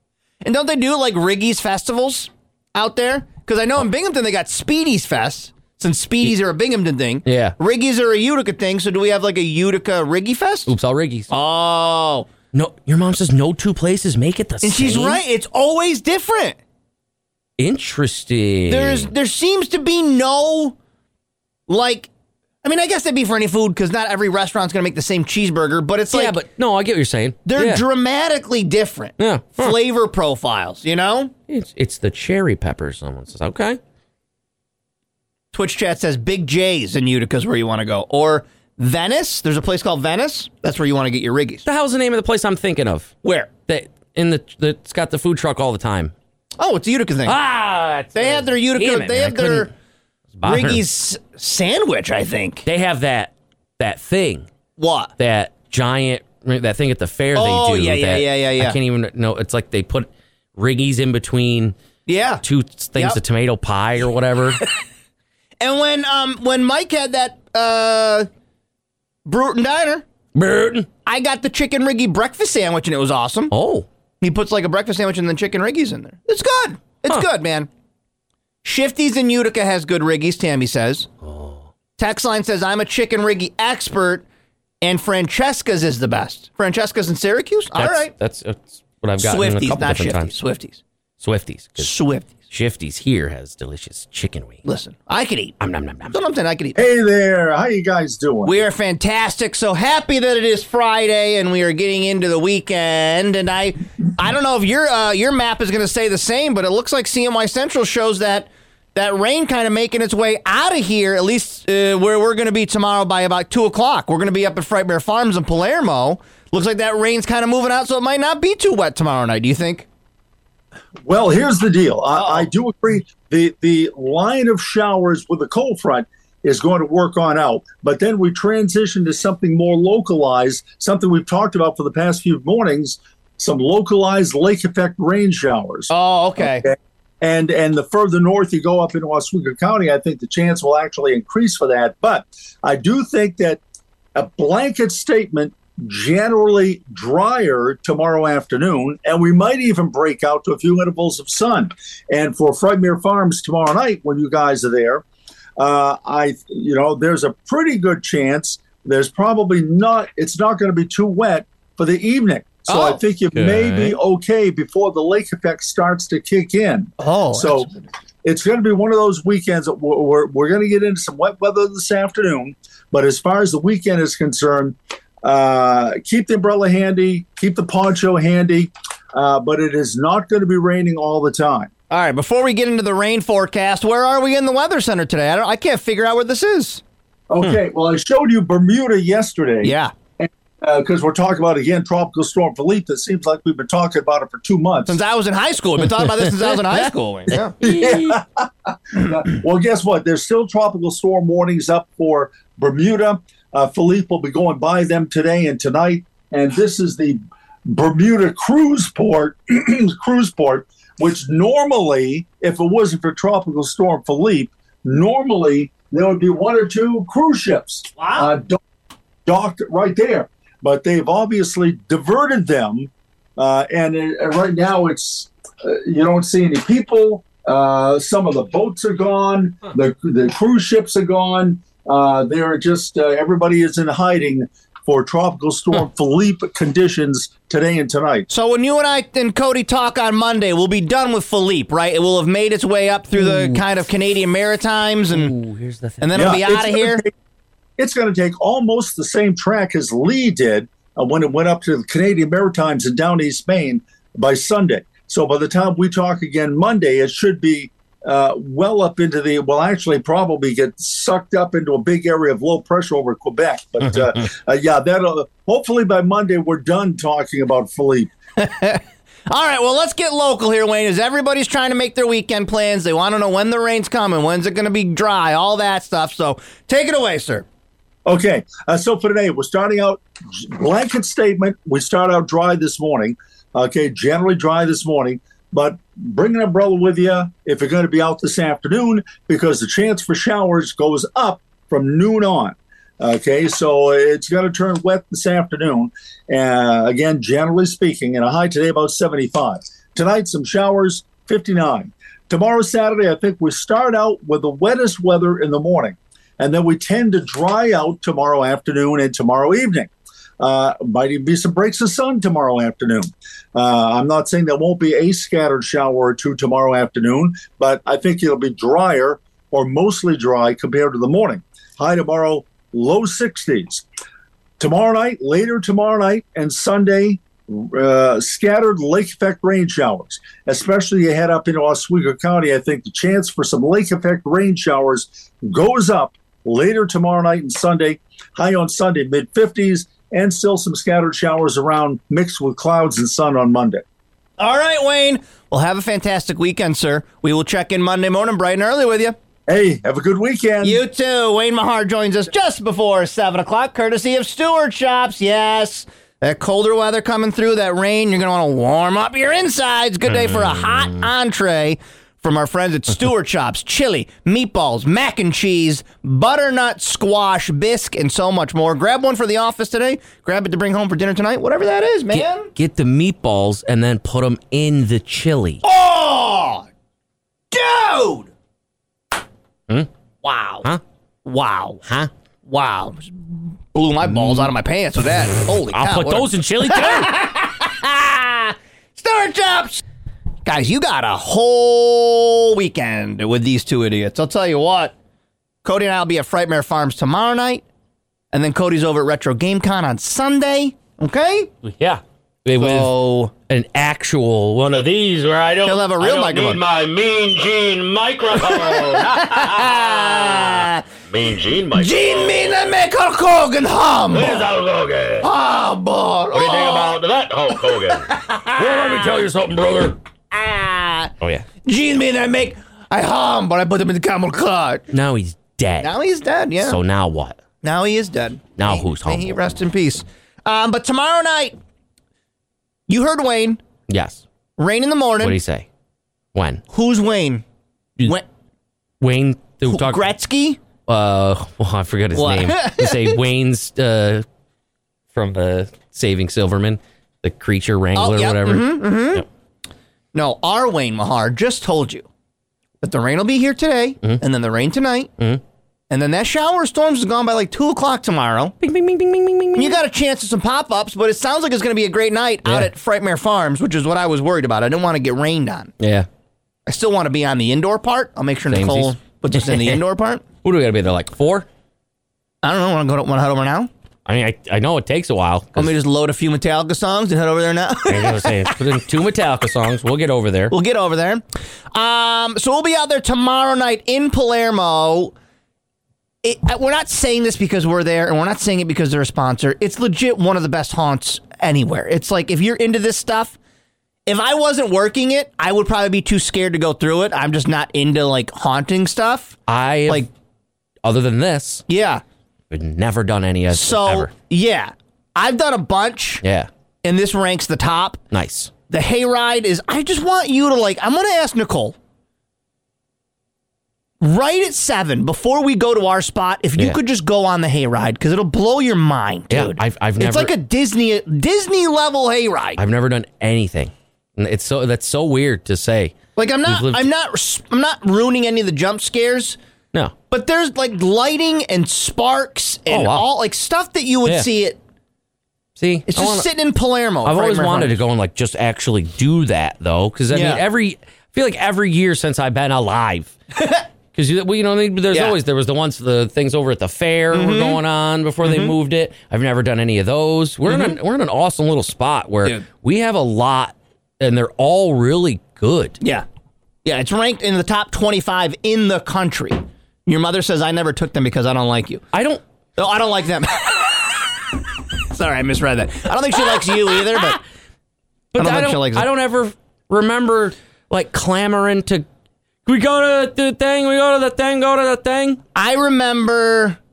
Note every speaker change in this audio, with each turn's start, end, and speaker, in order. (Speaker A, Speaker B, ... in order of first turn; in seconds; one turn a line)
Speaker A: 0.4-10.7
Speaker B: 7.2-7.5
Speaker B: 10.7-11.3
Speaker A: 11.3-12.3
Speaker B: 12.5-15.2
Speaker A: 14.6-16.6
Speaker B: 17.6-19.1
Speaker A: 18.7-20.8
Speaker A: 21.7-22.1
Speaker A: 22.6-26.4
Speaker B: 26.1-27.8
Speaker A: 27.5-31.3
Speaker B: 29.2-29.8
Speaker B: 31.5-33.8
Speaker A: 35.5-41.6
Speaker B: 41.6-43.1
Speaker A: 43.2-43.5
Speaker B: 43.7-46.1
Speaker A: 46.6-47.4
Speaker B: 47.2-49.7
Speaker A: 48.1-49.7
Speaker B: 50.4-50.8
Speaker A: 50.4-52.6
Speaker B: 52.7-54.5
Speaker A: 54.8-55.1
Speaker B: 55.2-61.8
Speaker A: 57.4-58.8
Speaker A: 62.1-62.4
Speaker B: 62.4-64.6
Speaker A: 65.6-68.3
Speaker A: 69.3-70.0
Speaker B: 70.3-70.9
Speaker A: 71.1-73.5
Speaker B: 73.5-73.9
Speaker A: 74.2-77.7
Speaker A: 78.6-81.1
Speaker B: 81.2-81.7
Speaker A: 82.0-84.2
Speaker A: 84.8-88.1
Speaker B: 87.8-90.3
Speaker A: 89.2-90.8
Speaker B: 91.2-91.9
Speaker A: 91.8-92.3
Speaker B: 92.5-94.6
Speaker A: 94.7-95.6
Speaker B: 95.6-96.2
Speaker A: 96.1-96.8
Speaker C: 96.8-98.5
Speaker A: 98.4-119.9
Speaker C: 121.0-143.6
Speaker A: 122.2-122.5
Speaker A: 135.9-136.7
Speaker C: 144.2-155.1
Speaker C: 155.6-167.7
Speaker A: 162.7-163.0
Speaker B: 163.3-164.0
Speaker A: 167.0-167.8
Speaker C: 168.2-181.7
Speaker A: 181.9-186.8
Speaker C: 187.3-195.0
Speaker A: 189.6-189.9
Speaker A: 194.9-197.5
Speaker B: 196.4-196.7
Speaker B: 197.6-198.2
Speaker C: 197.6-218.6
Speaker A: 218.0-218.3
Speaker C: 219.3-238.3
Speaker A: 238.3-245.3
Speaker B: 243.2-243.6
Speaker B: 245.1-246.1
Speaker A: 246.0-247.1
Speaker C: 246.1-247.1
Speaker C: 247.8-268.1
Speaker A: 268.4-277.5
Speaker C: 278.1-323.9
Speaker C: 324.6-343.8
Speaker A: 344.4-349.2
Speaker C: 349.5-350.8
Speaker A: 350.6-372.5
Speaker B: 360.1-361.1
Speaker B: 372.1-375.6
Speaker A: 375.6-376.7
Speaker A: 377.5-378.3
Speaker A: 380.2-380.7
Speaker A: 381.2-381.8
Speaker A: 382.5-389.8
Speaker B: 384.1-384.5
Speaker B: 385.7-387.1
Speaker A: 390.4-394.9
Speaker A: 395.6-397.6
Speaker A: 398.3-401.5
Speaker B: 401.6-402.9
Speaker A: 402.6-403.3
Speaker B: 403.5-412.4
Speaker A: 405.6-406.7
Speaker A: 408.3-410.9
Speaker A: 411.7-414.6
Speaker B: 414.1-415.3
Speaker A: 415.2-417.0
Speaker B: 416.3-420.0
Speaker A: 417.7-419.2
Speaker A: 420.3-421.1
Speaker B: 421.2-421.5
Speaker A: 421.6-424.9
Speaker B: 424.9-425.9
Speaker A: 425.8-426.8
Speaker B: 426.6-427.4
Speaker A: 427.6-431.6
Speaker B: 428.6-429.4
Speaker A: 432.9-433.6
Speaker B: 433.9-434.2
Speaker A: 434.6-435.4
Speaker B: 435.2-435.7
Speaker B: 436.4-436.6
Speaker A: 436.7-437.4
Speaker B: 439.0-440.0
Speaker A: 439.7-440.6
Speaker B: 440.9-444.2
Speaker A: 442.1-443.2
Speaker B: 445.1-449.2
Speaker A: 447.9-449.2
Speaker A: 450.1-452.1
Speaker A: 452.8-455.1
Speaker A: 455.9-458.6
Speaker B: 458.6-459.8
Speaker A: 459.6-465.7
Speaker B: 465.8-466.1
Speaker A: 466.7-470.3
Speaker B: 468.5-469.8
Speaker B: 470.4-471.5
Speaker A: 472.4-473.7
Speaker B: 474.1-475.8
Speaker A: 475.6-478.6
Speaker B: 477.9-480.5
Speaker A: 480.5-485.1
Speaker A: 486.2-493.4
Speaker A: 494.1-500.1
Speaker B: 499.5-500.1
Speaker B: 500.8-501.6
Speaker A: 501.7-502.0
Speaker B: 502.5-504.1
Speaker A: 503.5-506.2
Speaker B: 506.2-506.5
Speaker A: 506.8-508.0
Speaker B: 508.1-508.5
Speaker A: 508.7-511.8
Speaker A: 514.0-522.6
Speaker B: 519.3-520.3
Speaker B: 522.6-526.8
Speaker A: 526.2-529.4
Speaker A: 530.1-534.6
Speaker B: 532.7-533.1
Speaker B: 535.6-536.3
Speaker A: 535.9-537.8
Speaker B: 537.0-543.1
Speaker A: 540.1-540.4
Speaker A: 543.4-543.6
Speaker B: 543.9-555.8
Speaker A: 544.9-545.2
Speaker A: 547.1-547.6
Speaker A: 548.2-548.5
Speaker A: 550.5-550.8
Speaker A: 555.8-556.1
Speaker A: 556.6-561.8
Speaker B: 561.9-562.2
Speaker A: 562.6-564.3
Speaker A: 564.9-567.2
Speaker B: 566.9-567.2
Speaker B: 568.1-571.9
Speaker A: 568.2-568.9
Speaker B: 572.5-575.2
Speaker A: 575.4-576.6